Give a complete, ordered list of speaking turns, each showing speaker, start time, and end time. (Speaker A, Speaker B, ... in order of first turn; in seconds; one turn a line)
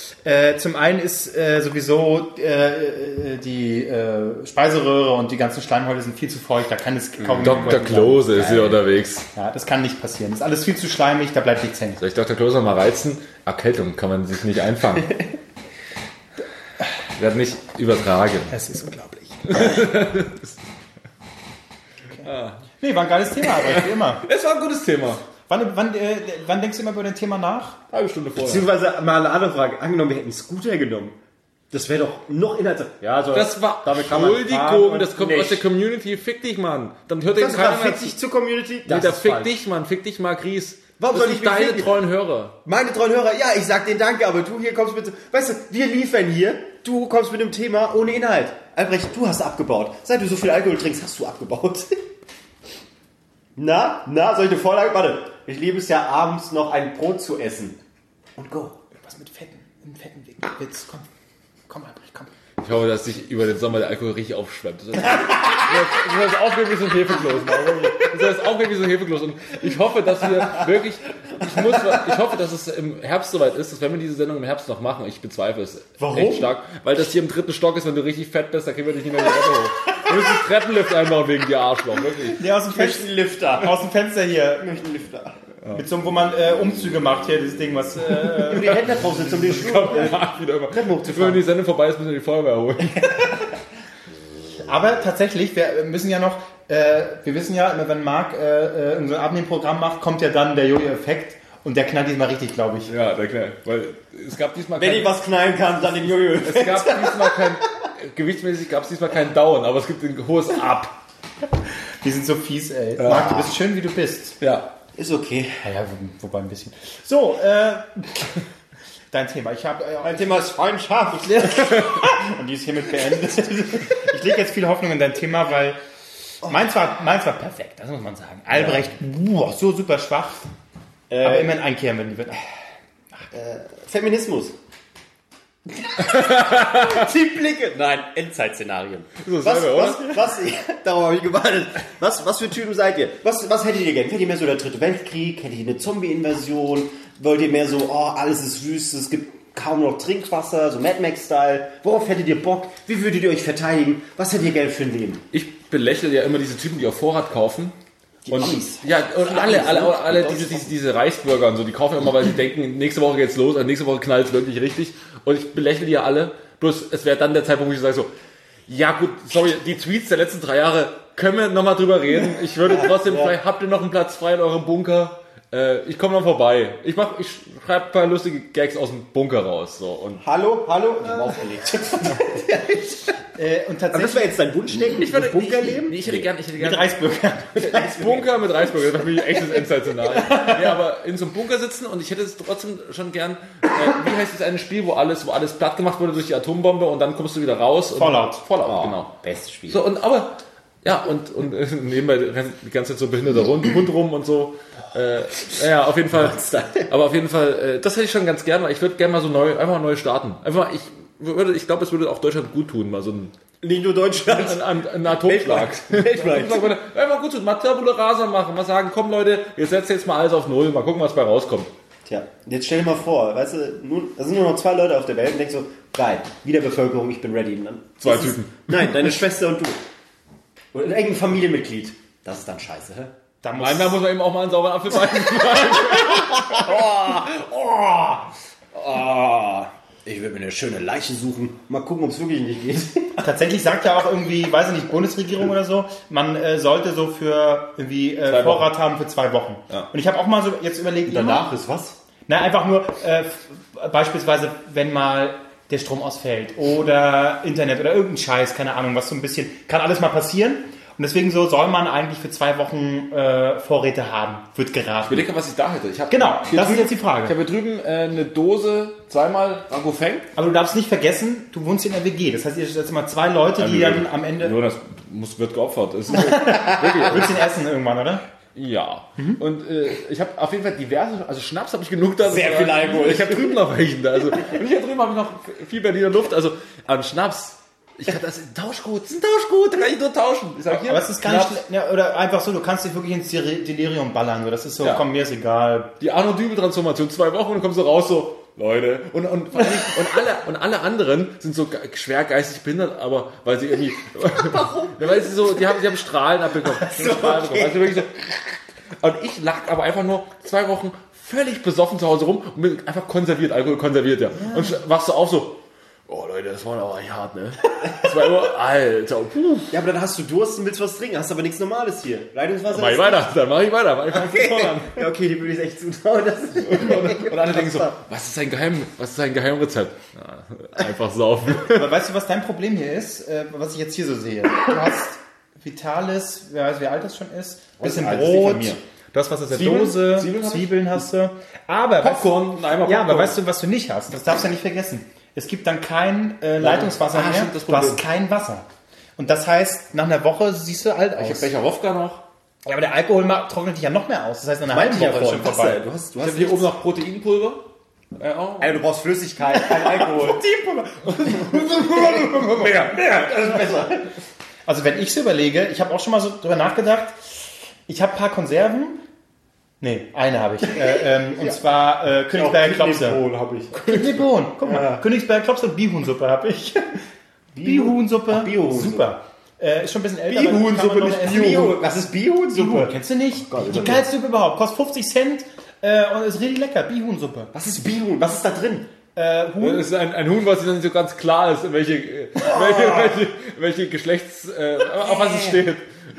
Speaker A: 0.2-8.5
Speaker B: 7.4-9.3
Speaker C: 8.3-8.8
Speaker A: 9.3-12.0
Speaker B: 12.0-15.2
Speaker B: 17.2-18.5
Speaker A: 18.5-19.8
Speaker B: 19.5-20.6
Speaker B: 22.2-22.6
Speaker A: 22.8-24.2
Speaker B: 23.6-25.2
Speaker A: 25.5-27.8
Speaker B: 27.9-28.7
Speaker C: 28.4-31.2
Speaker C: 31.7-35.6
Speaker B: 33.3-38.2
Speaker C: 37.3-39.6
Speaker B: 38.9-42.6
Speaker C: 41.0-42.0
Speaker C: 42.6-52.0
Speaker C: 53.6-57.8
Speaker C: 58.4-58.8
Speaker A: 59.0-61.1
Speaker A: 61.7-62.3
Speaker B: 62.6-82.4
Speaker C: 76.0-76.5
Speaker A: 82.3-84.8
Speaker C: 82.6-83.8
Speaker C: 84.6-85.4
Speaker A: 85.7-88.9
Speaker C: 88.4-91.5
Speaker B: 88.5-93.4
Speaker A: 94.5-102.9
Speaker B: 102.9-105.2
Speaker C: 104.8-107.6
Speaker B: 106.2-111.0
Speaker A: 112.0-114.4
Speaker B: 113.0-113.3
Speaker C: 113.1-113.6
Speaker B: 114.4-114.7
Speaker C: 115.0-115.6
Speaker A: 115.6-118.3
Speaker A: 119.1-120.5
Speaker C: 120.0-121.7
Speaker A: 121.2-125.8
Speaker A: 126.4-130.5
Speaker C: 131.1-131.6
Speaker A: 131.2-132.4
Speaker C: 133.3-134.6
Speaker C: 135.7-155.2
Speaker B: 136.1-137.0
Speaker B: 139.2-140.3
Speaker B: 155.3-157.8
Speaker C: 158.2-160.7
Speaker B: 158.3-168.1
Speaker B: 168.7-180.2
Speaker C: 172.6-173.3
Speaker C: 180.2-183.2
Speaker A: 183.4-184.3
Speaker C: 183.9-186.3
Speaker B: 184.8-187.0
Speaker A: 186.6-187.7
Speaker B: 187.6-199.1
Speaker C: 187.6-188.3
Speaker A: 190.2-190.8
Speaker A: 198.0-198.4
Speaker C: 198.6-199.8
Speaker B: 199.7-213.3
Speaker C: 206.1-206.9
Speaker C: 213.6-216.7
Speaker B: 214.3-221.7
Speaker C: 222.1-229.8
Speaker B: 228.0-228.9
Speaker C: 230.7-233.1
Speaker A: 233.4-234.0
Speaker B: 233.6-237.3
Speaker C: 236.1-243.2
Speaker A: 243.2-251.5
Speaker B: 248.3-248.7
Speaker C: 251.1-252.0
Speaker A: 252.3-265.3
Speaker B: 265.1-270.3
Speaker A: 266.1-267.3
Speaker A: 270.4-274.6
Speaker B: 273.6-277.5
Speaker A: 276.1-278.2
Speaker B: 278.6-291.6
Speaker C: 282.2-283.6
Speaker A: 290.7-295.9
Speaker B: 296.0-319.7
Speaker C: 304.5-305.2
Speaker C: 306.9-308.0
Speaker A: 314.4-314.8
Speaker C: 319.7-323.3
Speaker B: 322.7-325.1
Speaker C: 324.1-327.9
Speaker B: 326.6-331.9
Speaker A: 331.6-348.7
Speaker B: 337.8-338.8
Speaker B: 339.5-341.0
Speaker B: 342.0-343.4
Speaker B: 346.6-348.0
Speaker A: 349.2-351.5
Speaker B: 351.2-352.2
Speaker A: 352.6-355.8
Speaker C: 354.7-356.7
Speaker B: 356.2-357.6
Speaker B: 358.2-358.8
Speaker C: 358.6-360.4
Speaker A: 359.5-362.9
Speaker C: 362.1-364.1
Speaker A: 364.7-367.2
Speaker A: 367.9-369.0
Speaker A: 369.8-377.0
Speaker C: 370.8-371.6
Speaker C: 372.3-375.1
Speaker C: 377.5-379.1
Speaker A: 377.6-381.8
Speaker C: 380.3-383.0
Speaker A: 382.5-387.5
Speaker C: 383.5-384.1
Speaker C: 387.5-388.9
Speaker A: 389.1-389.9
Speaker B: 389.6-395.9
Speaker C: 395.0-395.6